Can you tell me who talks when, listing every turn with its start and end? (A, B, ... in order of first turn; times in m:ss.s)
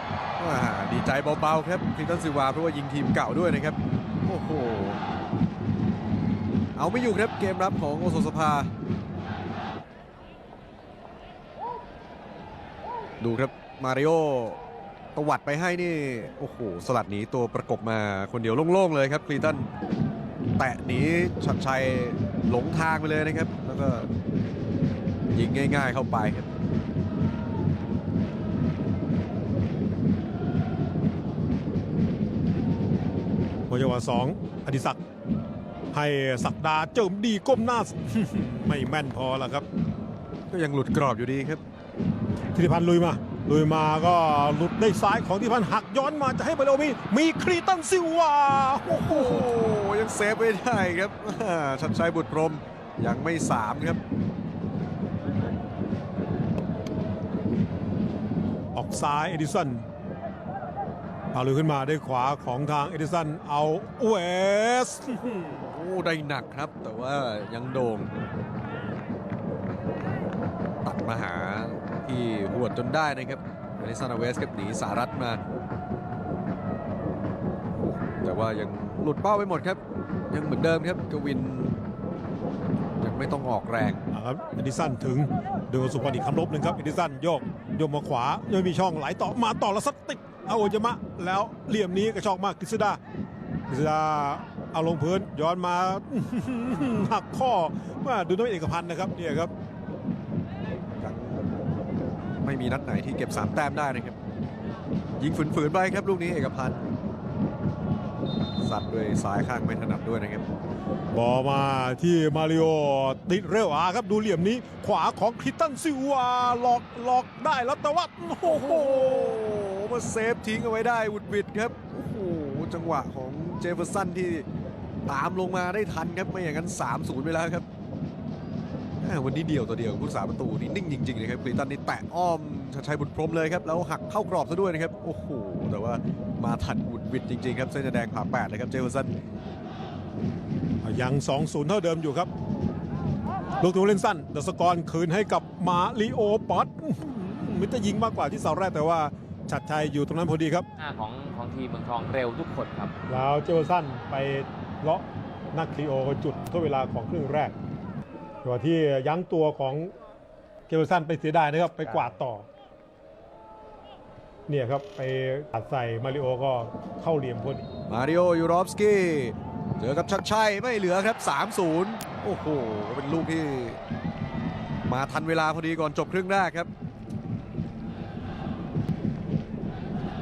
0:00.4-0:05.0 A
0:06.8-0:08.7 A
0:13.2-0:14.6 A
0:15.2-0:19.7 A
0:20.6-0:24.1 A
0:25.3-0:26.5 A
0:33.7-0:35.0 B
0:35.9-0:39.6 B
0:40.5-0:41.6 A
0:42.5-0:49.5 B
0:49.0-0:54.0 A
0:58.7-0:59.9 B
1:01.3-1:05.5 B
1:05.3-1:08.1 A
1:10.8-1:15.4 A
1:18.2-1:19.8 A
1:20.3-1:21.8 A
1:23.0-1:24.0 A
1:24.1-1:33.0 B
1:33.7-1:39.5 B
1:41.0-1:41.4 A
1:42.4-1:44.2 A
1:45.2-1:46.8 A
1:48.6-1:50.4 A
1:51.1-1:59.4 B
1:58.4-2:04.5 A
2:05.1-2:07.6 A
2:09.0-2:19.2 A
2:20.8-2:22.3 B
2:23.6-2:30.7 B
2:30.8-2:32.9 C
2:33.1-2:37.6 B
2:38.4-2:39.9 B
2:40.7-2:42.5 B
2:44.5-2:47.7 B
2:47.9-2:53.8 A
2:54.9-2:56.7 A